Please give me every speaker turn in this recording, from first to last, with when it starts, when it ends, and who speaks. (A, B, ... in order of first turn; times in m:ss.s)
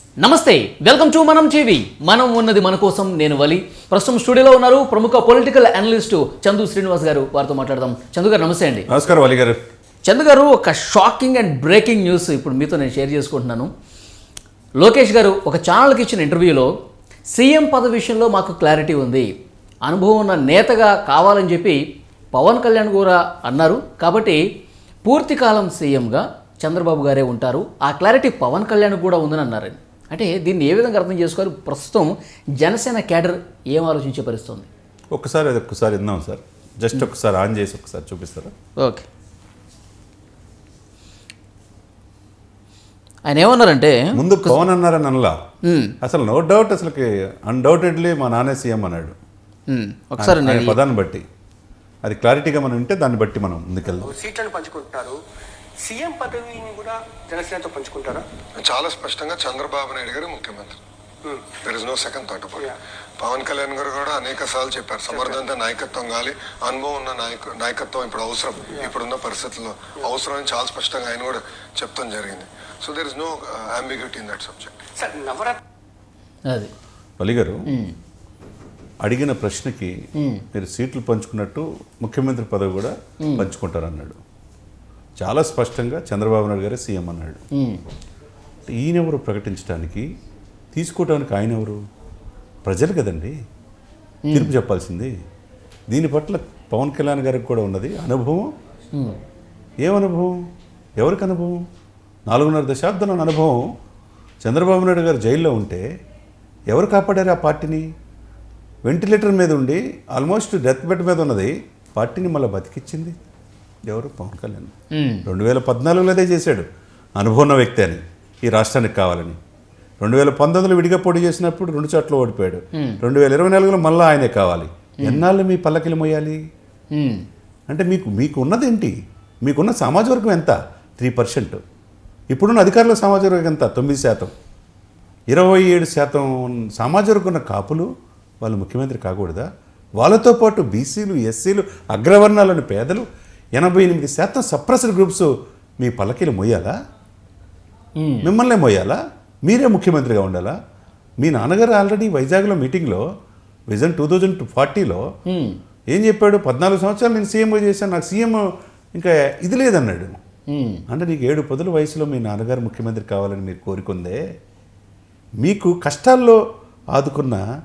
0:00.2-0:08.9 A
0:08.9-0:09.6 B
0:10.0-0:13.7 A
0:14.8-0:16.7 A
0:17.3-0:19.3 A
0:19.8-0:21.8 A
0:22.3-0:24.4 A
0:25.0-0:34.7 A
0:35.1-0:38.5 B
0:38.8-0:39.0 A
0:43.3-0:44.6 A
0:44.1-0:45.4 B
0:45.6-0:46.0 A
0:46.0-0:49.2 B
0:49.7-0:50.8 A
0:50.2-0:51.2 B
0:52.0-0:54.2 B
0:54.1-0:55.2 C
0:55.9-0:58.2 C
0:58.6-1:00.8 D
1:01.6-1:02.7 D
1:03.2-1:14.8 D
1:15.0-1:15.6 C
1:17.2-1:17.6 B
1:17.7-1:17.9 A
1:19.0-1:19.9 B
1:20.2-1:20.4 A
1:20.5-1:24.2 B
1:23.2-1:23.5 A
1:25.2-1:27.4 B
1:27.6-1:27.8 A
1:28.7-1:30.0 B
1:30.7-1:31.8 B
1:32.6-1:33.3 B
1:34.2-1:34.5 A
1:34.3-1:35.1 B
1:35.9-1:38.5 B
1:39.8-1:40.3 B
1:41.0-1:41.6 B
1:42.3-1:43.6 B
1:44.4-1:45.9 B
1:46.7-1:47.8 B
1:48.9-1:53.2 B
1:53.9-1:54.7 B
1:54.9-1:55.3 A
1:55.2-1:56.7 B
1:57.2-1:59.4 B
2:00.0-2:06.4 B
2:06.9-2:07.2 A
2:07.7-2:11.6 B
2:12.3-2:14.3 B
2:15.3-2:17.9 B
2:18.4-2:19.5 B
2:20.0-2:23.0 B
2:23.6-2:25.3 B
2:25.8-2:26.7 B
2:28.0-2:28.3 A
2:28.2-2:30.6 B
2:31.2-2:33.0 B
2:33.7-2:35.0 B
2:35.3-2:35.6 A
2:35.9-2:38.4 B
2:39.0-2:40.2 B
2:40.5-2:40.8 A
2:40.9-2:44.2 B
2:45.4-2:46.4 B
2:46.9-2:47.4 B